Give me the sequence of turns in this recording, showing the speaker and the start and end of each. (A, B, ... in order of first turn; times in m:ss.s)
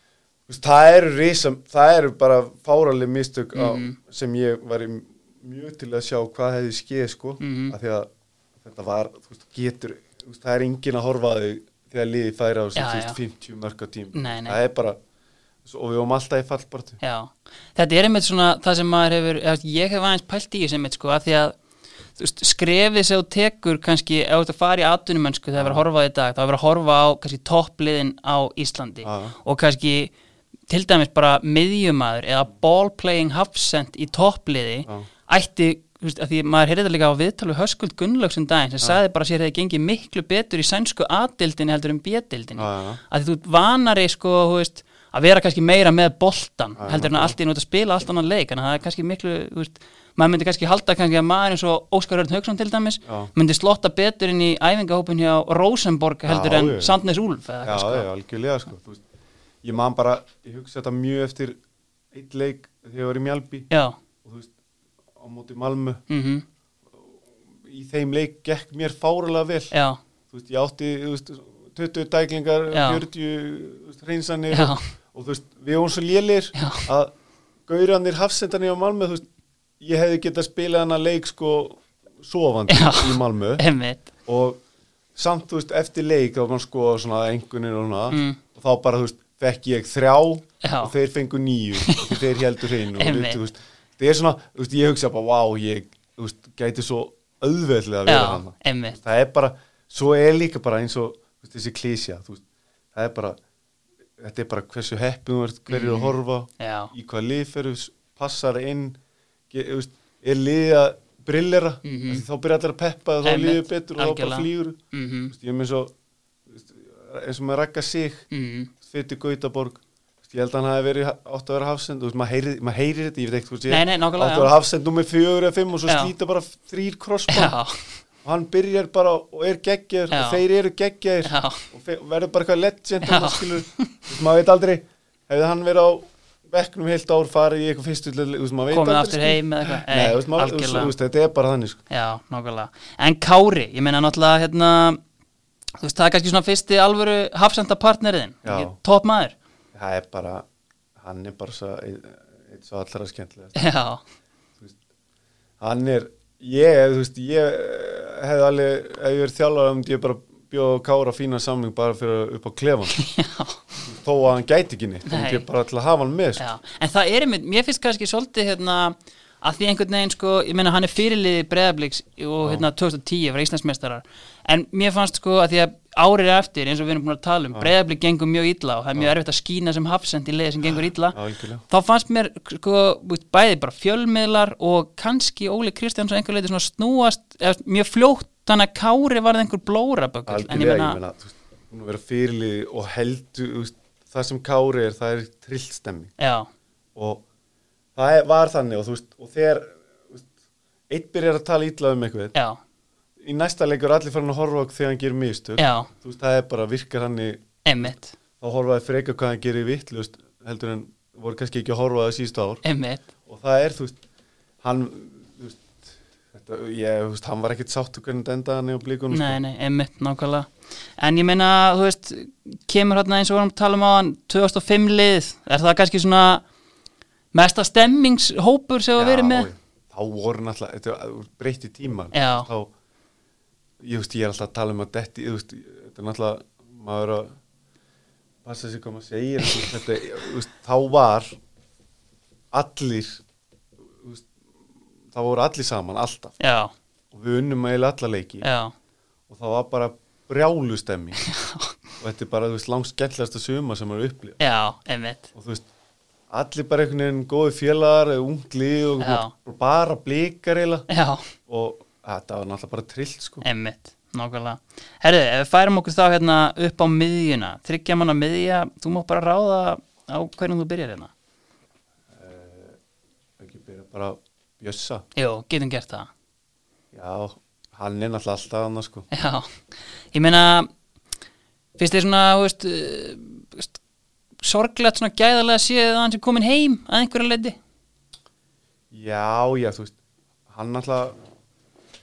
0:00.5-0:08.1 A
0:03.6-0:04.0 B
0:07.4-0:07.8 B
0:08.6-0:15.0 A
0:12.8-0:13.2 B
0:14.1-0:14.6 B
0:15.6-0:17.0 A
0:17.0-0:21.6 B
0:22.2-0:30.1 B
0:25.6-0:25.8 A
0:29.0-0:29.4 A
0:30.7-0:58.1 B
0:42.6-0:43.0 A
0:46.8-0:47.4 A
0:53.0-0:53.3 A
0:56.3-0:57.0 A
0:57.6-0:59.0 A
0:59.6-1:01.6 A
1:02.1-1:03.7 A
1:03.7-1:04.0 B
1:04.2-1:04.5 A
1:05.2-1:06.0 A
1:06.1-1:06.4 B
1:07.6-1:09.7 A
1:09.7-1:10.0 B
1:10.3-1:17.1 A
1:12.7-1:13.0 B
1:14.5-1:14.8 B
1:16.6-1:16.9 B
1:17.7-1:19.2 A
1:19.8-1:23.6 A
1:22.7-1:24.1 B
1:24.3-1:24.6 A
1:25.2-1:42.4 A
1:28.1-1:28.4 B
1:30.6-1:30.9 B
1:31.8-1:32.2 B
1:32.9-1:33.4 B
1:38.1-1:39.0 B
1:42.9-1:43.4 A
1:44.2-1:49.0 A
1:45.7-1:46.9 B
1:49.5-1:54.8 A
1:51.8-1:52.2 B
1:53.2-1:55.3 B
1:55.3-1:55.9 A
1:56.5-1:58.2 A
1:58.3-1:58.7 B
1:58.8-2:07.6 A
2:03.7-2:04.5 B
2:05.9-2:06.1 B
2:07.3-2:07.8 B
2:08.2-2:21.8 A
2:10.1-2:10.4 B
2:11.2-2:11.7 B
2:13.0-2:13.9 B
2:18.7-2:20.9 B
2:21.9-2:25.0 B
2:25.8-2:29.4 B
2:28.4-2:28.8 A
2:29.7-2:30.4 A
2:31.0-2:33.6 A
2:33.6-2:34.0 B
2:35.6-2:43.0 A
2:43.0-2:43.6 B
2:43.8-2:46.5 A
2:45.1-2:45.4 B
2:46.4-3:01.2 B
3:00.7-3:01.6 A
3:01.7-3:11.0 B
3:10.3-3:16.1 A
3:16.2-3:16.5 B
3:17.0-3:17.2 A
3:18.0-3:20.3 A
3:20.9-3:22.3 A
3:23.2-3:32.6 A
3:25.6-3:25.9 B
3:27.6-3:28.2 B
3:32.6-3:33.0 B
3:33.3-3:34.0 A
3:34.6-3:39.4 A
3:39.1-3:46.4 B
3:47.3-3:49.5 B
3:49.0-3:52.7 A
3:52.1-3:52.5 B
3:53.8-3:57.4 A
3:58.4-4:01.4 A
4:02.5-4:03.2 A
4:04.0-4:04.3 A
4:05.1-4:06.4 A
4:06.4-4:06.7 B
4:07.1-4:08.5 A
4:08.4-4:08.7 B
4:09.3-4:11.2 A
4:11.2-4:11.8 B
4:12.0-4:14.4 A
4:14.4-4:15.3 B
4:15.4-4:15.7 A
4:16.3-4:20.9 A
4:19.0-4:19.3 B
4:20.9-4:21.3 B
4:21.5-4:23.4 A
4:23.4-4:31.1 B
4:32.1-4:32.8 A
4:33.4-4:35.0 A
4:35.2-4:36.1 B
4:36.9-4:39.1 A
4:39.1-4:39.5 B
4:40.1-4:40.7 B
4:41.8-4:43.8 B
4:44.4-4:47.6 B
4:48.9-4:50.0 A
4:50.5-4:51.2 A